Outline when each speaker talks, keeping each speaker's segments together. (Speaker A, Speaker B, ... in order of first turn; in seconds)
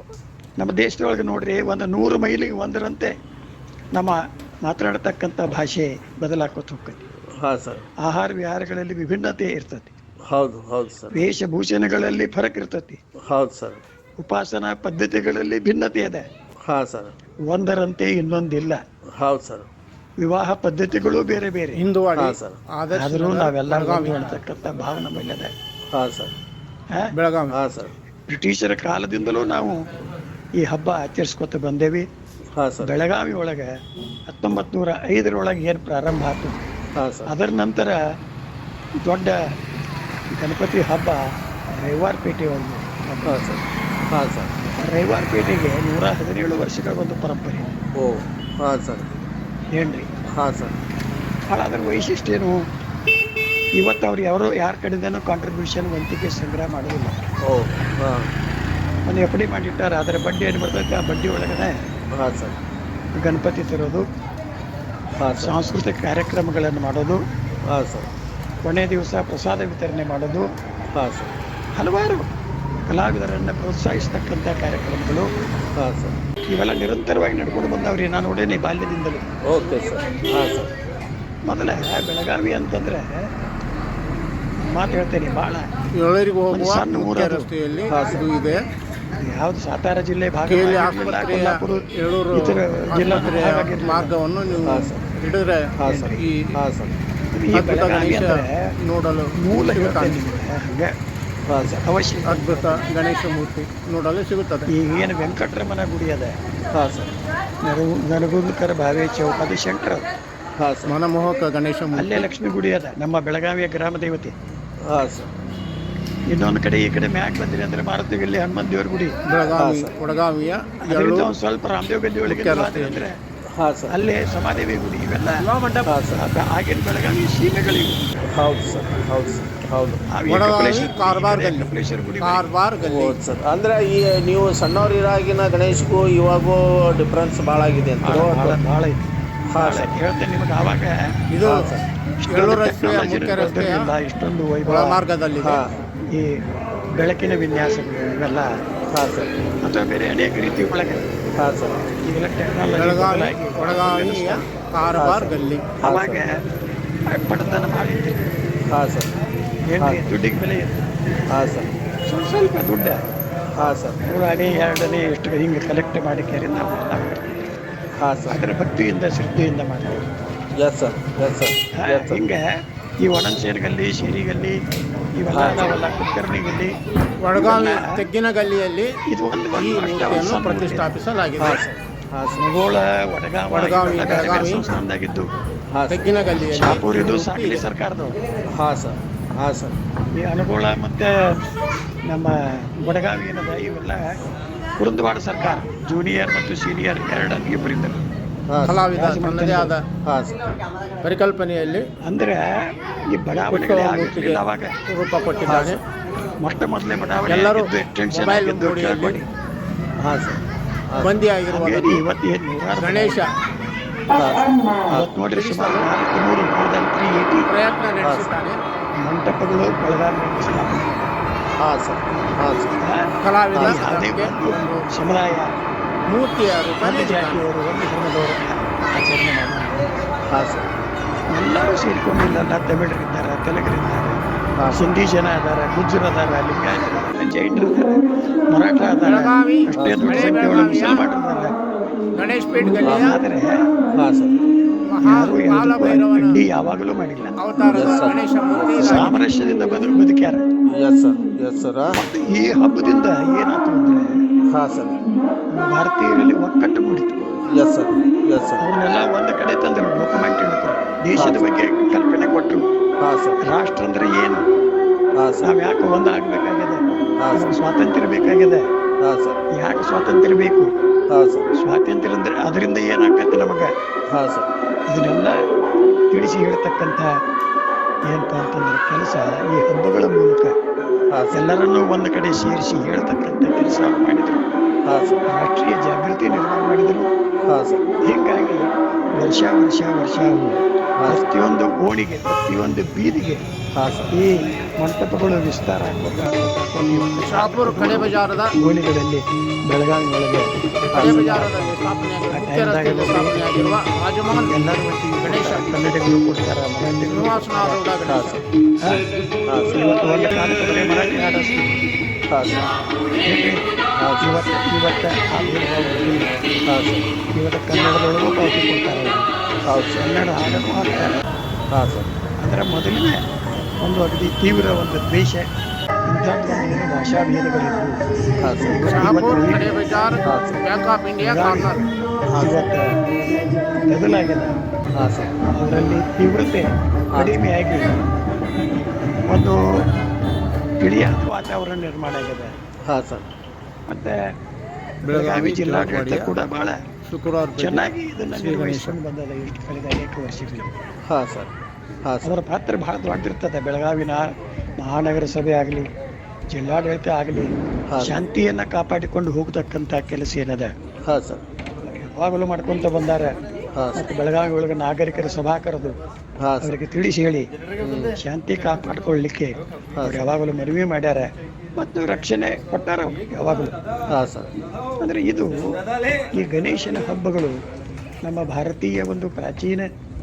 Speaker A: 0.6-3.1, 3.9-7.0, 8.0-9.9, 11.1-13.0, 14.2-16.2, 17.5-18.8, 20.2-21.8, 22.9-25.5, 28.3-29.8, 30.6-32.1, 32.8-33.7, 34.3-36.6, 37.3-38.0, 39.0-39.4, 40.4-41.2, 41.7-43.4, 44.8-47.7, 49.8-50.1, 51.5-52.5, 53.8-57.2, 59.1-61.8, 63.1-64.0, 65.4-67.2, 68.6-70.5, 71.8-72.3, 72.9-75.3, 76.5-79.2, 81.5-83.3, 84.6-85.7, 86.5-87.5, 89.2-94.1, 95.8-96.2, 97.3-98.7, 99.4-100.9, 101.6-102.7, 104.7-106.3, 107.6-110.1, 111.9-114.3, 116.3-119.1, 120.8-123.2, 123.9-125.5, 126.1-128.2, 130.1-132.4, 138.0-140.9, 142.2-145.0, 146.1-146.4, 147.0-148.5, 149.6-151.0, 152.0-154.4, 155.8-156.4, 157.1-158.3, 159.7-160.9, 162.1-163.0, 164.0-167.3, 168.3-170.0, 171.8-174.6, 175.2-176.7, 177.3-178.0, 179.1-180.9, 182.4-185.3, 186.4-188.2, 190.2-191.4, 192.1-194.2, 194.8-198.0, 198.9-199.7, 202.0-204.8, 206.4-209.2, 211.5-213.2, 214.9-217.5, 219.0-221.1, 222.8-225.5, 226.8-229.8, 231.3-241.5, 242.9-243.6, 245.0-247.3, 248.8-250.4, 251.9-254.2, 255.5-257.2, 258.6-262.6, 263.4-264.4, 265.4-268.6, 269.5-270.7, 271.6-273.7, 274.9-275.4, 276.1-277.1, 278.1-280.5, 281.3-284.5, 285.3-287.1, 288.0-293.4, 294.1-301.8, 302.3-303.8, 304.4-307.8, 309.7-311.8, 313.2-313.6, 314.2-316.3, 317.3-319.3, 320.0-321.2, 322.4-323.2, 323.8-325.5, 326.1-328.0, 328.6-329.7, 331.2-331.7, 332.4-333.0, 333.9-334.6, 335.5-338.0, 339.2-339.6, 340.8-342.5, 343.9-344.2, 345.1-346.8, 347.6-350.7, 352.2-355.9, 356.5-360.7, 361.9-363.3, 363.9-366.0, 366.6-367.5, 368.1-373.7, 375.0-375.5, 376.4-377.6, 378.2-379.9
Speaker B: 7.4-7.9, 10.3-11.2, 13.2-13.8, 16.7-17.1, 19.2-19.7, 22.1-22.6, 25.9-26.3, 27.5-27.9, 32.5-32.9, 37.0-37.3, 43.2-44.5, 48.0-49.2, 50.3-50.8, 57.4-58.3, 62.1-62.6, 65.2-65.7, 67.7-68.1, 70.9-71.3, 75.7-76.2, 79.5-80.7, 87.9-88.2, 94.6-95.1, 95.8-96.9, 101.5-101.8, 106.7-107.2, 110.6-110.9, 114.8-115.3, 119.5-119.9, 123.5-124.0, 125.8-126.3, 128.3-130.0, 132.8-138.6, 139.5-139.9, 141.4-141.8, 145.4-145.8, 148.9-149.3, 151.3-151.9, 154.9-156.2, 158.7-159.1, 159.8-160.1, 161.3-161.7, 163.5-164.0, 168.0-168.4, 170.6-172.2, 175.3-175.8, 181.4-182.5, 185.7-186.1, 188.5-189.8, 198.5-198.9, 200.0-200.4, 205.4-205.8, 210.0-211.2, 214.1-215.1, 218.0-218.3, 221.6-222.8, 223.5-223.9, 230.3-230.7, 234.6-234.9, 239.7-240.3, 242.8-243.2, 243.9-244.4, 247.6-249.1, 250.7-252.0, 254.5-255.0, 257.5-258.6, 261.1-261.4, 263.0-263.4, 265.1-265.5, 267.2-267.6, 269.0-269.4, 271.1-271.5, 274.1-274.5, 281.1-281.5, 284.8-285.2, 287.4-287.8, 293.7-294.1, 300.9-301.4, 308.1-308.4, 309.5-309.9, 312.3-312.7, 314.0-314.4, 316.6-317.1, 319.6-320.1, 321.7-322.1, 328.4-329.2, 330.2-330.6, 332.3-332.6, 334.9-335.4, 337.1-337.5, 342.9-343.3, 351.1-351.5, 352.0-352.4, 357.9-358.2, 361.1-361.4, 363.7-364.0, 366.4-366.7, 367.8-368.1, 369.9-370.3, 374.1-374.5
Speaker C: 21.8-24.4, 27.1-27.5, 85.9-88.6, 90.5-96.5, 97.5-100.2, 102.3-104.7, 110.8-112.3, 119.2-121.3, 122.2-123.0, 125.4-125.9, 130.3-133.2, 141.3-141.7, 142.3-143.9, 144.7-145.6, 152.7-155.7, 177.2-178.9, 179.5-181.6, 183.5-184.6, 185.9-187.6, 198.6-199.8, 201.0-201.9, 203.5-205.8, 207.3-209.2, 211.0-212.0, 212.8-213.3, 215.3-215.9, 217.5-218.6, 223.2-224.8, 226.1-227.5, 239.0-241.1, 242.1-243.2, 244.9-246.4, 247.4-249.1, 297.3-298.5, 300.9-305.8, 307.0-308.4, 328.9-331.8, 345.1-346.3, 347.0-349.0